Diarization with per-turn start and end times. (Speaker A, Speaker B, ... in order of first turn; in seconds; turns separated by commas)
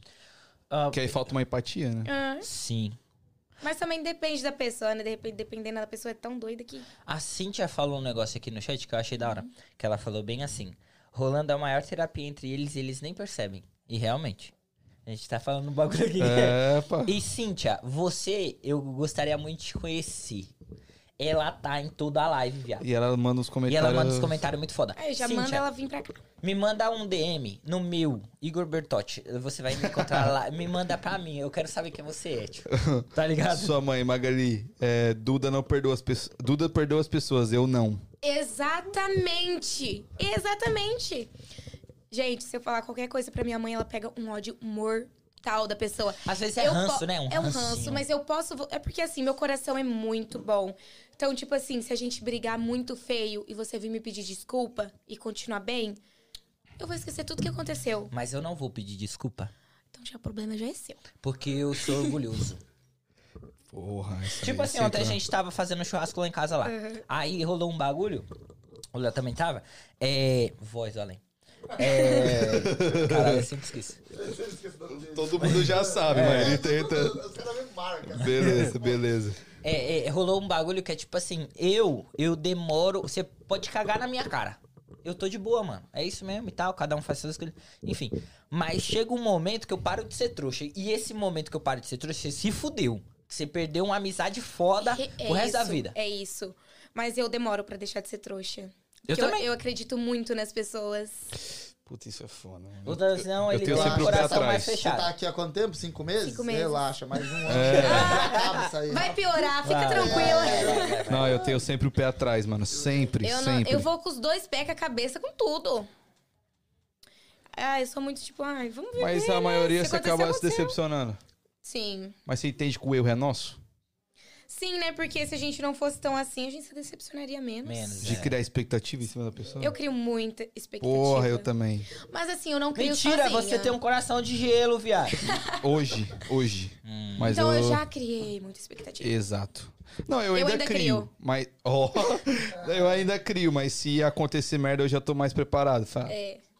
Speaker A: 0.7-1.2, Speaker B: 0.9-2.1, Speaker C: 2.0-2.5, Speaker A: 2.4-3.0, Speaker C: 3.6-6.9, Speaker A: 7.0-14.5, Speaker C: 9.2-9.5, Speaker A: 15.1-20.5, Speaker B: 16.2-17.1, Speaker A: 21.2-22.9, Speaker B: 22.8-24.4, Speaker A: 23.7-25.7, Speaker C: 24.9-26.2, Speaker A: 26.4-33.7, Speaker B: 29.8-30.3, Speaker B: 32.7-38.0, Speaker C: 38.2-41.3, Speaker C: 42.1-56.0, Speaker A: 46.2-48.0, Speaker C: 56.8-58.1, Speaker A: 58.1-59.5, Speaker C: 59.9-61.0, Speaker A: 61.2-62.6, Speaker B: 63.7-65.2, Speaker A: 64.4-68.3, Speaker C: 66.7-67.0, Speaker A: 68.9-74.0, Speaker C: 71.8-72.3, Speaker B: 72.1-73.5, Speaker D: 74.1-79.0, Speaker B: 75.1-77.2, Speaker A: 75.4-76.6, Speaker B: 78.1-79.4, Speaker A: 78.3-78.7, Speaker A: 79.6-95.9, Speaker C: 94.8-101.3, Speaker A: 99.1-99.5, Speaker B: 101.8-104.8, Speaker A: 102.8-105.1, Speaker D: 103.6-109.2, Speaker C: 106.2-106.8, Speaker B: 107.5-108.2, Speaker A: 107.5-108.7, Speaker C: 107.8-111.6, Speaker A: 109.6-111.5, Speaker D: 109.9-111.1, Speaker B: 111.1-113.8, Speaker C: 113.2-115.9, Speaker C: 117.5-120.8, Speaker B: 119.0-121.2, Speaker C: 121.6-122.2, Speaker B: 122.2-123.6, Speaker C: 124.5-128.2, Speaker A: 127.6-128.4, Speaker B: 128.0-129.7, Speaker C: 129.6-133.8, Speaker B: 130.8-131.9, Speaker A: 132.8-135.3, Speaker C: 135.2-135.6, Speaker B: 135.5-137.8, Speaker A: 136.8-137.4, Speaker C: 137.3-139.1, Speaker B: 139.0-146.1, Speaker C: 140.3-141.1, Speaker C: 146.1-146.4